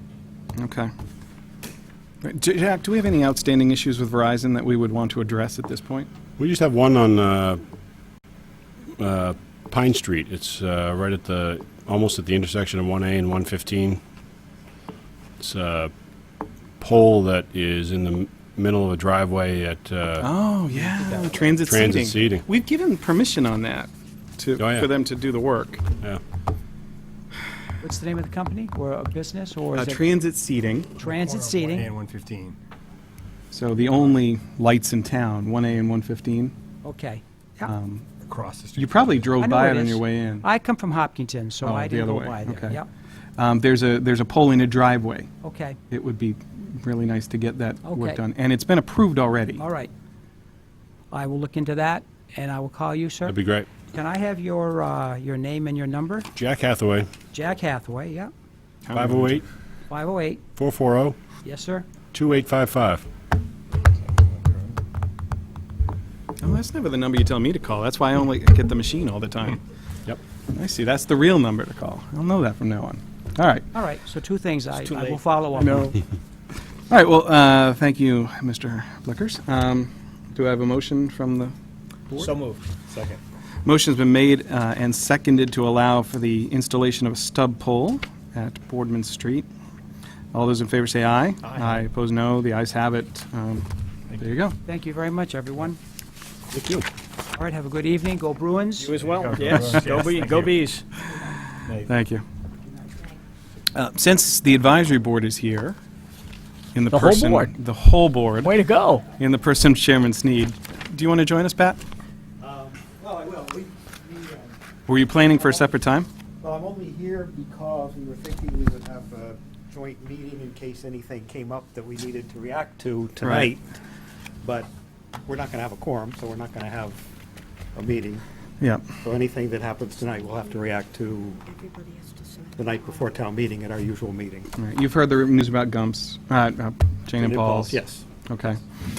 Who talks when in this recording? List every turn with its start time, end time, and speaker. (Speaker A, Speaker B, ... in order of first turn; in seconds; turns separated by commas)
Speaker A: 0.6-0.9, Speaker A: 2.2-6.1, Speaker B: 6.4-7.6, Speaker B: 9.0-14.0, Speaker B: 15.4-15.9, Speaker B: 16.8-20.3, Speaker A: 20.2-25.8, Speaker B: 21.6-22.4, Speaker B: 24.6-24.9, Speaker C: 27.8-30.0, Speaker A: 29.7-30.9, Speaker D: 31.0-32.6, Speaker C: 31.0-31.9, Speaker A: 33.5-36.5, Speaker C: 36.8-37.7, Speaker A: 37.7-38.1, Speaker D: 38.2-39.4, Speaker A: 38.8-40.5, Speaker C: 39.4-42.9, Speaker A: 41.6-42.8, Speaker A: 43.4-45.3, Speaker C: 45.4-45.8, Speaker A: 45.9-49.6, Speaker C: 47.8-48.2, Speaker C: 49.6-49.9, Speaker C: 51.1-53.4, Speaker B: 53.2-53.8, Speaker C: 53.9-56.3, Speaker B: 56.3-57.1, Speaker C: 57.3-58.3, Speaker A: 58.9-59.4, Speaker B: 58.9-59.4, Speaker C: 59.9-60.4, Speaker B: 60.5-61.2, Speaker C: 61.4-61.8, Speaker B: 62.1-63.0, Speaker D: 64.2-64.7, Speaker A: 66.4-69.6, Speaker A: 70.5-73.7, Speaker C: 73.7-75.9, Speaker E: 74.9-75.2, Speaker A: 75.6-75.9, Speaker A: 76.9-81.5, Speaker E: 82.1-83.2, Speaker A: 83.6-89.5, Speaker A: 90.3-94.6, Speaker E: 91.5-91.8, Speaker C: 94.7-95.8, Speaker B: 96.6-96.8, Speaker C: 97.3-98.9, Speaker D: 98.8-100.7, Speaker E: 98.8-100.8, Speaker A: 101.8-102.2, Speaker A: 103.7-105.8, Speaker A: 106.7-111.8, Speaker E: 106.9-107.5, Speaker E: 108.4-109.0, Speaker F: 112.4-114.6, Speaker A: 114.9-116.1, Speaker F: 115.3-115.6, Speaker F: 116.4-123.7, Speaker A: 123.2-123.5, Speaker F: 124.4-124.7, Speaker F: 125.2-127.0, Speaker F: 127.7-128.2, Speaker F: 129.0-131.7, Speaker F: 132.5-134.5, Speaker A: 134.6-138.6, Speaker F: 137.2-138.1